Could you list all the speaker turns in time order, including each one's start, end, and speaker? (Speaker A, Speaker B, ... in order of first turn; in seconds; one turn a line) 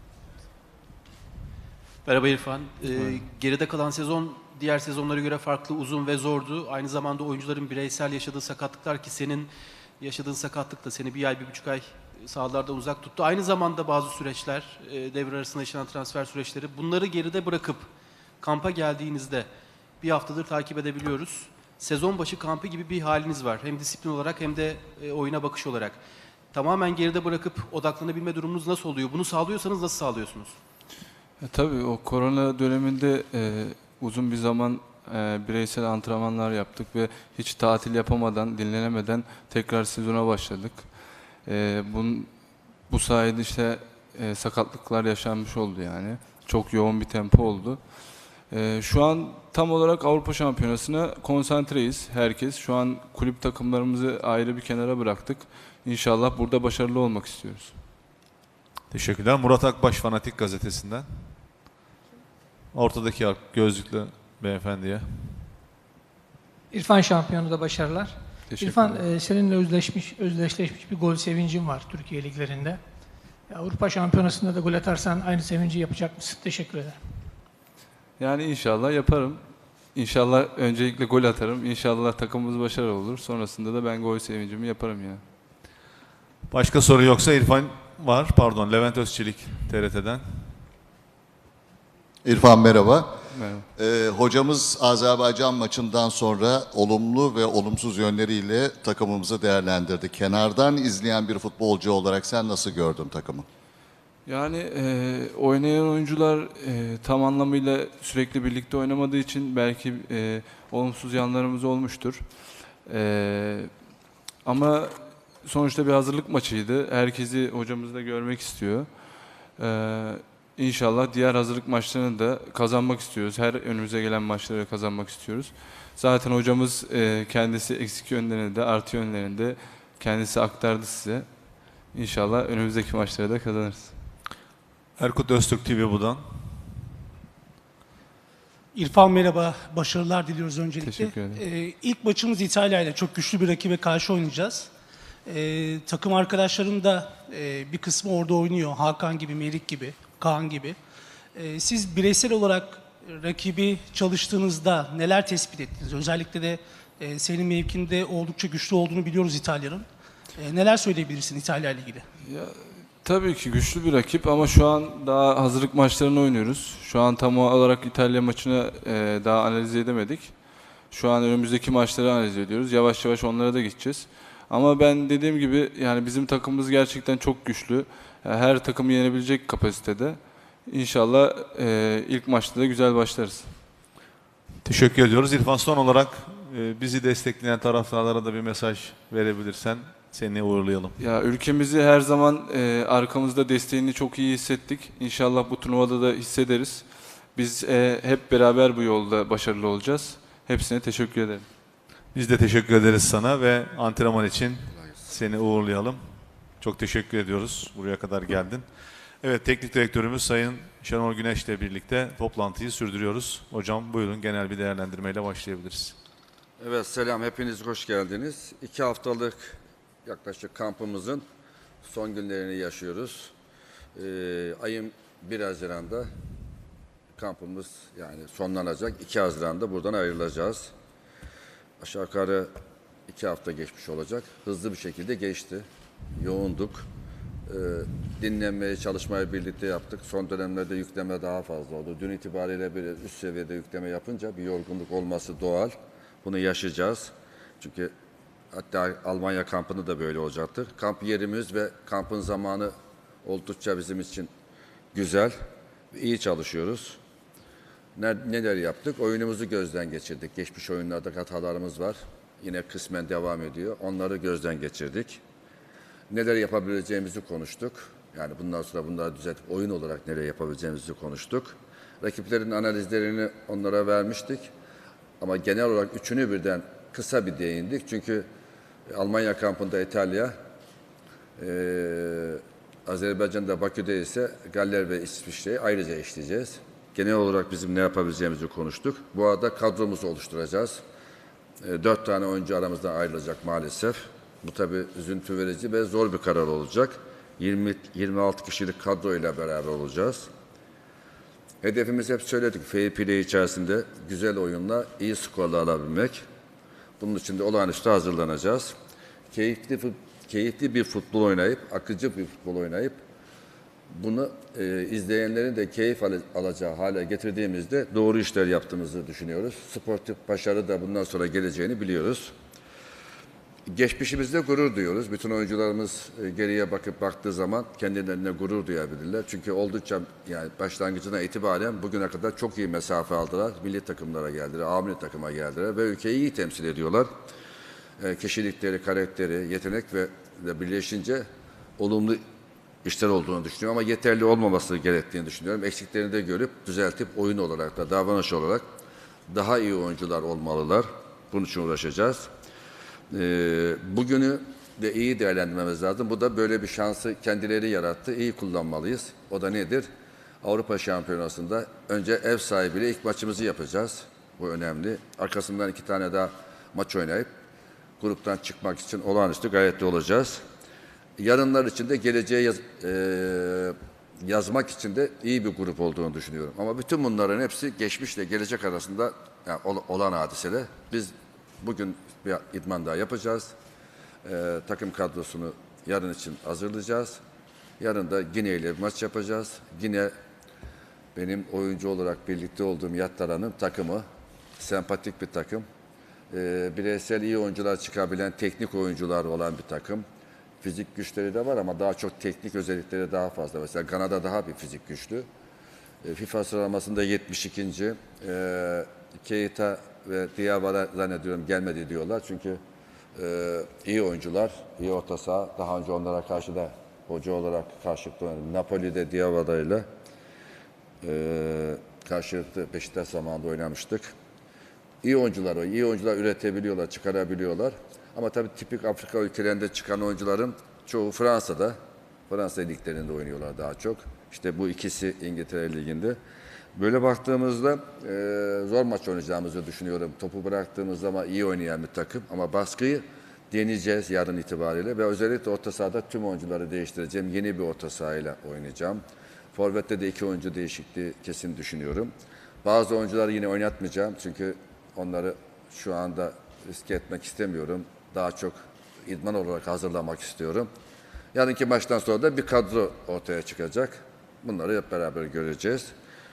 Speaker A: 2.0-17.9
Speaker B: 3.0-3.2
Speaker A: 18.4-19.5
Speaker A: 20.0-26.0
Speaker A: 26.5-30.6
Speaker B: 31.4-42.3
Speaker B: 42.9-57.8
Speaker C: 58.9-61.0
Speaker C: 62.7-65.5
Speaker D: 66.7-72.8
Speaker B: 68.5-69.0
Speaker D: 73.5-77.0
Speaker B: 78.2-79.4
Speaker B: 79.9-85.2
Speaker C: 86.5-90.5
Speaker E: 92.2-93.2
Speaker B: 93.3-93.7
Speaker E: 93.8-103.5
Speaker B: 104.2-112.2
Speaker B: 112.8-113.7
Speaker B: 114.4-118.9
Speaker B: 119.5-131.3
Speaker B: 131.9-134.0
Speaker C: 135.0-136.6
Speaker F: 138.7-144.7
Speaker B: 140.8-141.4
Speaker F: 145.2-150.8
Speaker F: 151.3-162.1
Speaker B: 162.2-170.4
Speaker B: 170.9-183.6
Speaker C: 184.6-191.0
Speaker B: 191.0-201.4
Speaker C: 202.1-206.0
Speaker C: 206.6-208.6
Speaker C: 209.2-215.9
Speaker G: 216.6-221.2
Speaker G: 221.8-223.3
Speaker G: 223.9-226.1
Speaker G: 227.2-230.7
Speaker G: 231.8-232.5
Speaker G: 233.1-236.8
Speaker G: 237.5-247.9
Speaker G: 248.5-252.7
Speaker G: 253.2-254.3
Speaker G: 254.9-255.3
Speaker G: 255.9-257.0
Speaker G: 257.9-265.2
Speaker G: 266.1-274.5
Speaker G: 275.2-278.2
Speaker G: 278.9-280.4
Speaker G: 281.4-290.8
Speaker G: 291.6-300.3
Speaker G: 301.6-306.2
Speaker G: 307.0-308.7
Speaker G: 309.3-313.0
Speaker G: 313.9-322.3
Speaker G: 323.7-337.1
Speaker G: 338.0-341.2
Speaker G: 341.8-342.2
Speaker G: 342.8-348.6
Speaker G: 349.3-352.3
Speaker G: 353.1-359.9
Speaker G: 360.4-367.3
Speaker G: 368.0-370.4
Speaker G: 371.2-383.5
Speaker G: 384.2-387.2
Speaker G: 387.8-390.1
Speaker G: 391.1-394.0
Speaker G: 394.6-395.6
Speaker G: 396.3-400.0
Speaker G: 400.6-405.3
Speaker G: 406.0-412.6
Speaker G: 413.1-419.8
Speaker G: 421.0-424.1
Speaker G: 425.0-431.8
Speaker G: 432.3-436.2
Speaker G: 436.7-449.0
Speaker G: 449.5-452.1
Speaker G: 452.6-460.7
Speaker G: 461.3-465.9